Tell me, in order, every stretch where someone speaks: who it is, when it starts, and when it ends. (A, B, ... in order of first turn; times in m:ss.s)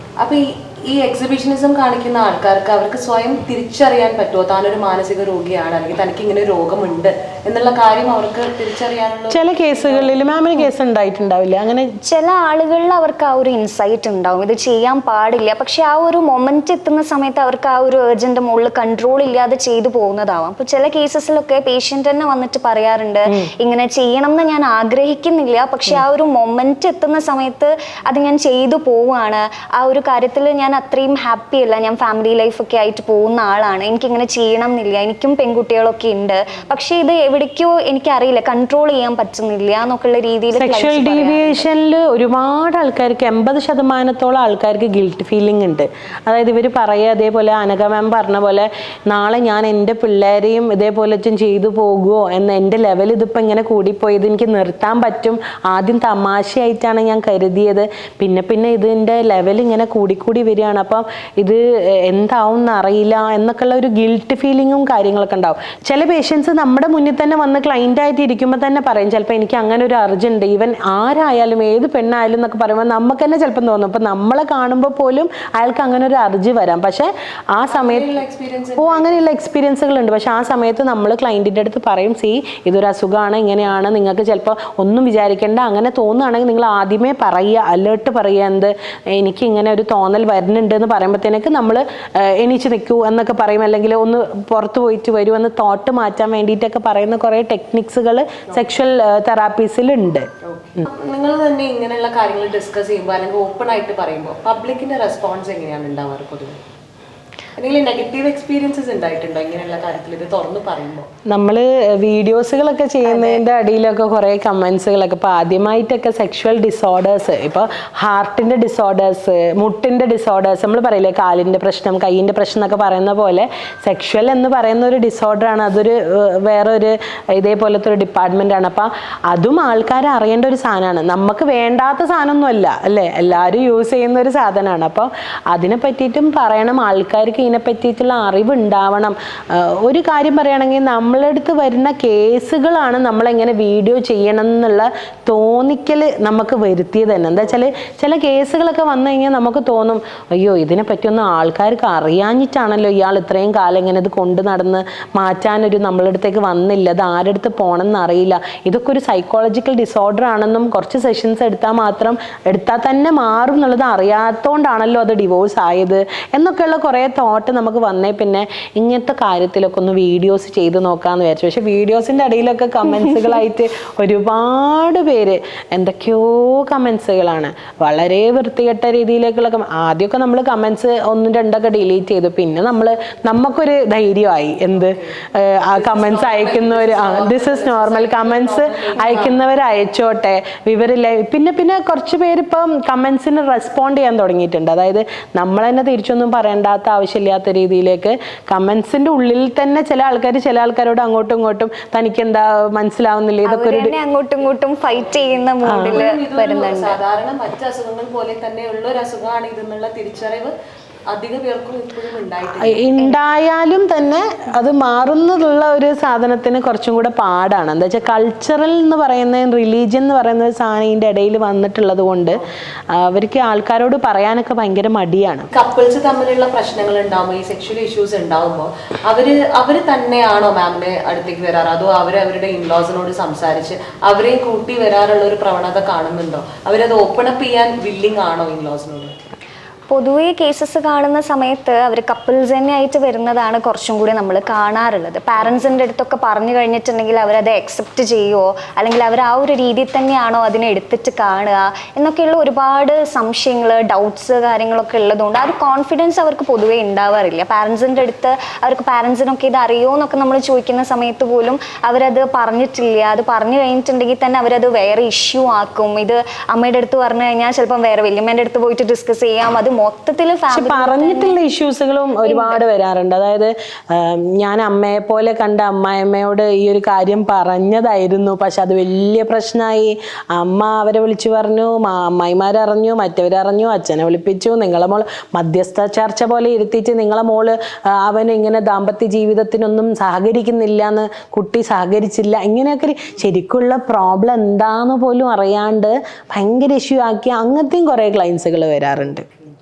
0:00.2-0:10.2 A
0:09.3-0:11.9 B
0:12.0-0:41.7 C
0:40.5-1:18.1 B
1:17.7-1:19.2 A
1:18.8-1:40.9 B
1:40.4-1:46.6 A
1:47.6-1:51.1 A
1:51.3-3:23.9 B
1:53.0-1:53.4 C
3:05.8-3:09.4 A
3:23.5-3:27.0 C
3:25.6-3:26.0 B
3:25.8-3:30.5 A
3:31.1-3:32.8 A
3:32.6-3:42.4 B
3:42.9-3:45.5 B
3:45.5-3:59.1 A
3:59.9-4:31.4 C
4:30.5-4:59.2 B
4:32.2-4:32.6 C